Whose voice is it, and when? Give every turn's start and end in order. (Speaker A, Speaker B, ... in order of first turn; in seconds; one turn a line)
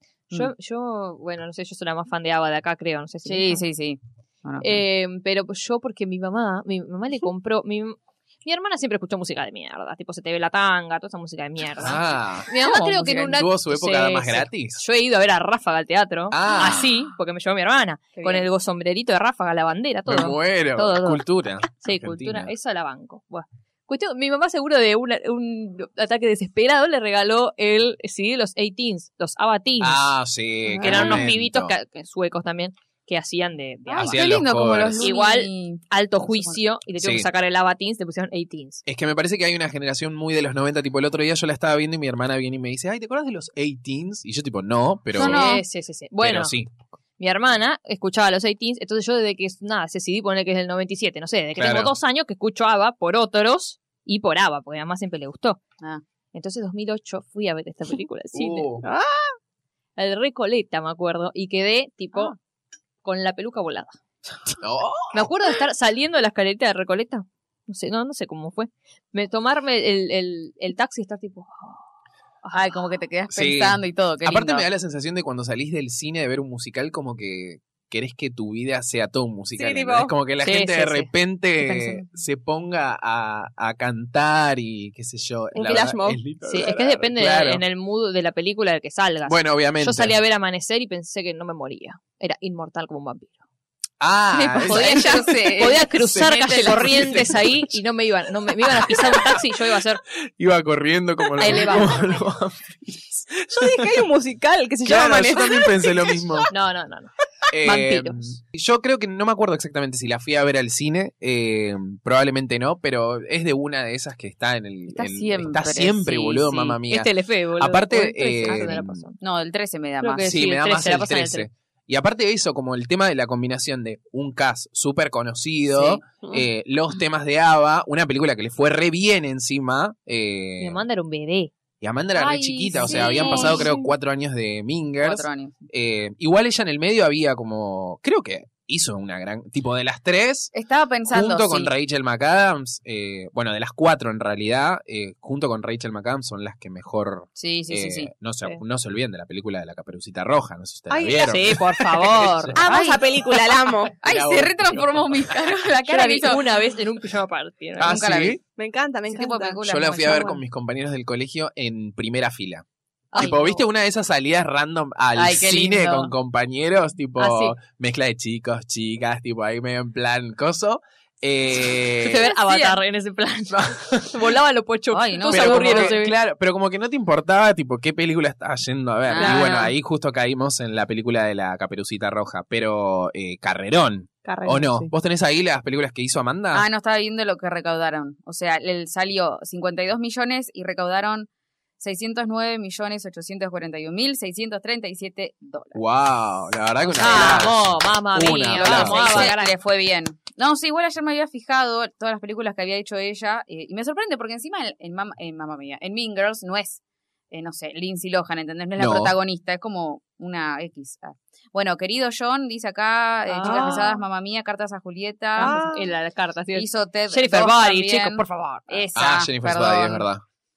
Speaker A: 0.3-3.6
Speaker B: 3.2-4.8
Speaker A: 4.6-21.2
Speaker C: 11.8-12.5
Speaker B: 12.6-13.4
Speaker C: 13.3-14.8
Speaker C: 16.3-16.9
Speaker B: 18.1-18.5
Speaker C: 20.1-22.5
Speaker A: 21.8-30.0
Speaker C: 29.8-31.7
Speaker D: 30.6-31.3
Speaker A: 30.8-34.2
Speaker B: 33.9-36.6
Speaker C: 34.0-35.1
Speaker A: 35.0-38.8
Speaker C: 37.0-37.3
Speaker C: 38.9-45.5
Speaker B: 45.1-45.6
Speaker A: 45.1-46.5
Speaker C: 46.2-46.7
Speaker A: 47.2-55.6
Speaker C: 51.6-51.9
Speaker A: 56.3-58.7
Speaker C: 58.3-58.8
Speaker D: 58.8-59.3
Speaker A: 60.0-62.4
Speaker A: 63.0-64.0
Speaker C: 64.6-65.2
Speaker A: 65.1-71.8
Speaker A: 72.4-72.9
Speaker B: 72.5-74.7
Speaker C: 73.3-87.6
Speaker D: 79.5-80.1
Speaker A: 80.4-81.1
Speaker B: 81.6-82.0
Speaker D: 85.5-86.2
Speaker A: 86.4-93.3
Speaker C: 89.2-90.1
Speaker C: 94.0-95.2
Speaker B: 94.3-97.3
Speaker A: 94.6-100.0
Speaker C: 96.7-97.6
Speaker C: 98.8-99.2
Speaker C: 100.1-103.9
Speaker A: 101.4-102.1
Speaker D: 103.5-106.4
Speaker C: 104.8-106.5
Speaker A: 106.5-107.1
Speaker C: 107.5-119.1
Speaker A: 107.6-108.3
Speaker B: 114.9-116.7
Speaker A: 116.7-119.2
Speaker B: 119.2-120.3
Speaker A: 120.0-121.5
Speaker C: 120.2-130.8
Speaker A: 130.6-131.5
Speaker C: 131.8-140.5
Speaker B: 132.1-133.9
Speaker A: 132.9-133.5
Speaker B: 135.0-135.6
Speaker B: 140.5-141.7
Speaker C: 141.1-152.6
Speaker B: 147.4-148.1
Speaker D: 150.9-151.3
Speaker A: 151.0-152.5
Speaker D: 152.5-153.9
Speaker B: 152.6-153.2
Speaker B: 154.0-156.4
Speaker C: 154.0-155.3
Speaker A: 155.8-158.1
Speaker C: 157.8-158.4
Speaker B: 157.8-158.4
Speaker D: 158.6-160.2
Speaker B: 159.1-160.4
Speaker C: 159.7-162.6
Speaker A: 163.1-163.6
Speaker C: 163.2-172.3
Speaker B: 165.1-166.1
Speaker B: 167.2-167.5
Speaker A: 172.0-176.1
Speaker B: 172.2-172.8
Speaker C: 173.5-174.1
Speaker B: 174.9-176.0
Speaker C: 175.3-186.6
Speaker B: 179.1-179.7
Speaker D: 179.2-179.7
Speaker D: 184.2-184.9
Speaker B: 186.5-191.3
Speaker B: 191.8-195.8
Speaker C: 195.7-199.3
Speaker B: 196.9-197.5
Speaker A: 197.0-199.5
Speaker B: 198.5-206.8
Speaker B: 207.3-215.7
Speaker C: 208.8-209.1
Speaker A: 213.3-214.0
Speaker D: 213.4-213.9
Speaker D: 215.4-215.9
Speaker A: 215.4-218.9
Speaker B: 216.5-220.1
Speaker C: 218.9-220.2